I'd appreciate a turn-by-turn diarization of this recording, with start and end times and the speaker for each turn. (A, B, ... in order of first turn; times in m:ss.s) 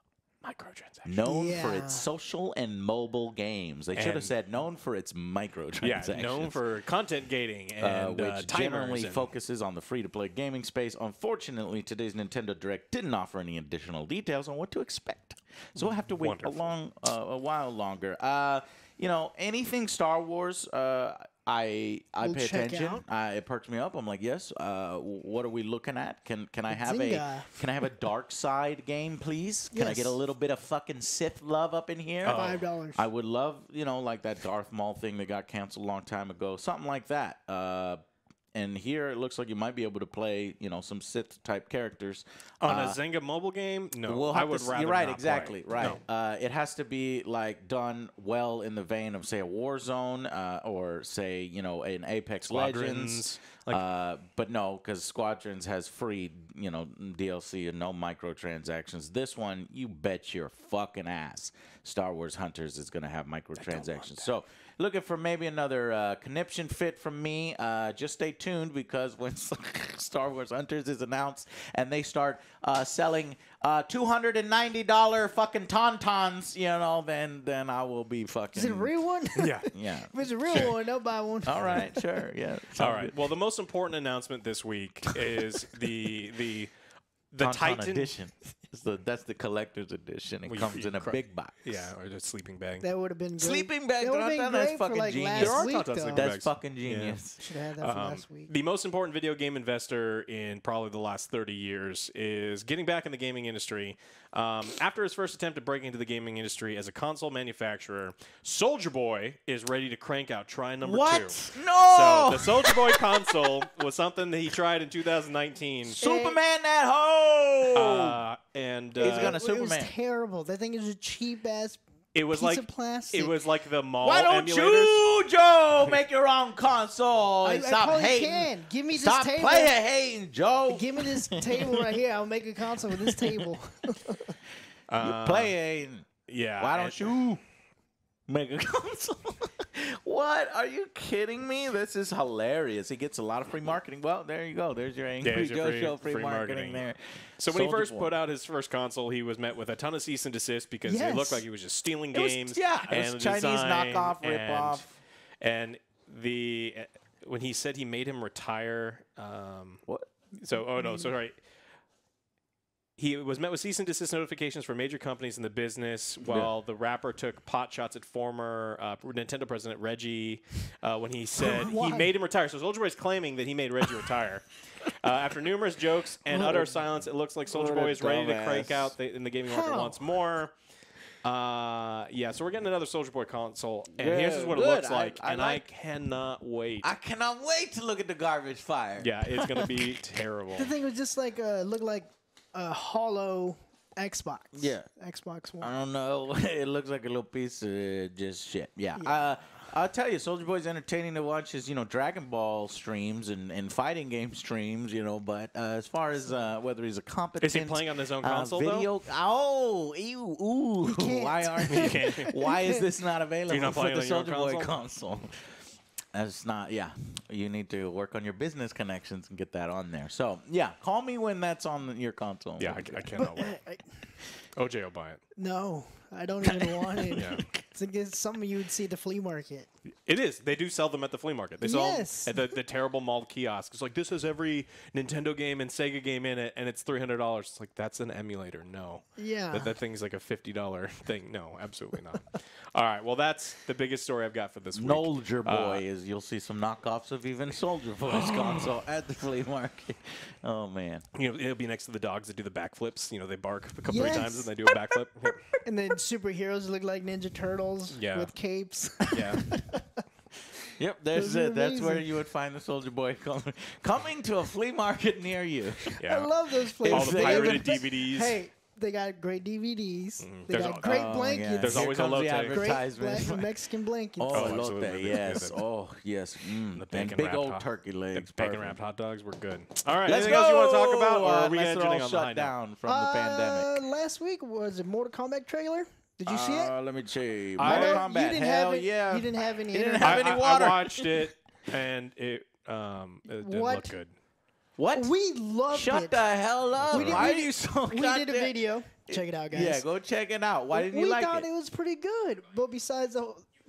0:00.4-0:01.2 A
0:01.1-0:06.6 B
0:01.2-0:02.1 C
0:03.9-0:04.3 A
0:05.8-0:09.3 A
0:07.8-0:38.0 B
0:15.8-0:16.7 A
0:22.2-0:23.0 C
0:26.7-0:27.5 C
0:29.7-0:30.2 C
0:32.2-0:32.6 A
0:32.2-0:33.1 C
0:38.5-0:43.0 B
0:42.6-0:46.0 A
0:44.0-1:18.9 B
0:52.5-0:53.8 A
1:03.6-1:04.3 A
1:18.5-1:22.2 C
1:19.4-1:19.7 A
1:19.7-1:20.7 B
1:21.4-1:23.2 B
1:22.8-1:26.7 A
1:27.3-1:28.2 A
1:27.4-1:31.8 B
1:30.5-1:32.8 A
1:32.8-1:36.3 C
1:33.4-1:37.4 B
1:35.4-1:56.0 A
1:37.4-1:38.5 C
1:50.8-1:53.5 B
1:56.0-1:58.2 B
1:56.0-1:56.4 C
1:57.7-1:59.4 A
1:59.0-1:59.9 B
1:59.0-2:03.4 C
2:02.1-2:05.1 A
2:04.0-2:12.0 B
2:07.4-2:09.8 C
2:10.7-2:14.4 C
2:14.9-2:15.6 A
2:15.0-2:16.1 B
2:16.3-2:17.2 A
2:16.6-2:17.4 B
2:18.3-2:28.1 B
2:25.2-2:39.8 A
2:30.8-2:31.4 C
2:32.1-2:34.9 B
2:40.4-2:41.4 A
2:43.0-3:00.5 A
2:46.2-2:46.5 B
2:51.4-2:52.1 C
2:56.3-2:56.8 B
2:57.5-2:58.9 B
2:59.5-3:00.0 C
3:01.2-3:06.9 A
3:04.0-3:05.6 B
3:06.8-3:09.9 B
3:09.0-3:10.7 A
3:10.6-3:15.7 C
3:14.5-3:14.9 B
3:15.6-3:35.4 B
3:19.0-3:19.3 C
3:27.4-3:28.9 A
3:30.8-3:32.9 C
3:31.7-3:32.3 A
3:33.5-3:34.8 A
3:36.1-3:43.1 B
3:42.6-3:43.6 A
3:43.1-3:44.2 C
3:44.6-3:45.2 A
3:45.4-3:49.7 C
3:46.4-3:47.5 B
3:47.2-3:47.4 A
3:50.1-4:05.8 A
3:51.6-3:52.5 C
3:59.2-3:59.7 C
4:04.7-4:11.1 B
4:08.1-4:08.7 A
4:11.2-4:15.5 A
4:13.9-4:14.5 C
4:15.6-4:19.8 C
4:17.9-4:18.3 A
4:19.1-4:19.4 A
4:20.8-4:25.8 B
4:21.1-4:22.1 C
4:26.0-4:34.6 C
4:26.0-4:26.3 A
4:26.8-4:27.7 B
4:26.8-4:28.4 A
4:30.2-4:32.8 A
4:30.5-4:33.6 B
4:34.2-4:38.8 B
4:34.3-4:35.6 A
4:36.7-4:42.6 A
4:40.0-4:43.7 B
4:42.8-4:46.8 C
4:46.3-4:51.2 B
4:47.6-4:48.0 A
4:47.6-4:50.6 C
4:50.0-4:54.1 A
4:53.4-4:54.0 C
4:54.8-4:55.1 B
4:54.9-4:56.2 C
4:55.7-5:01.5 B
4:56.8-4:57.3 A
4:56.9-4:59.9 C
5:00.7-5:03.5 C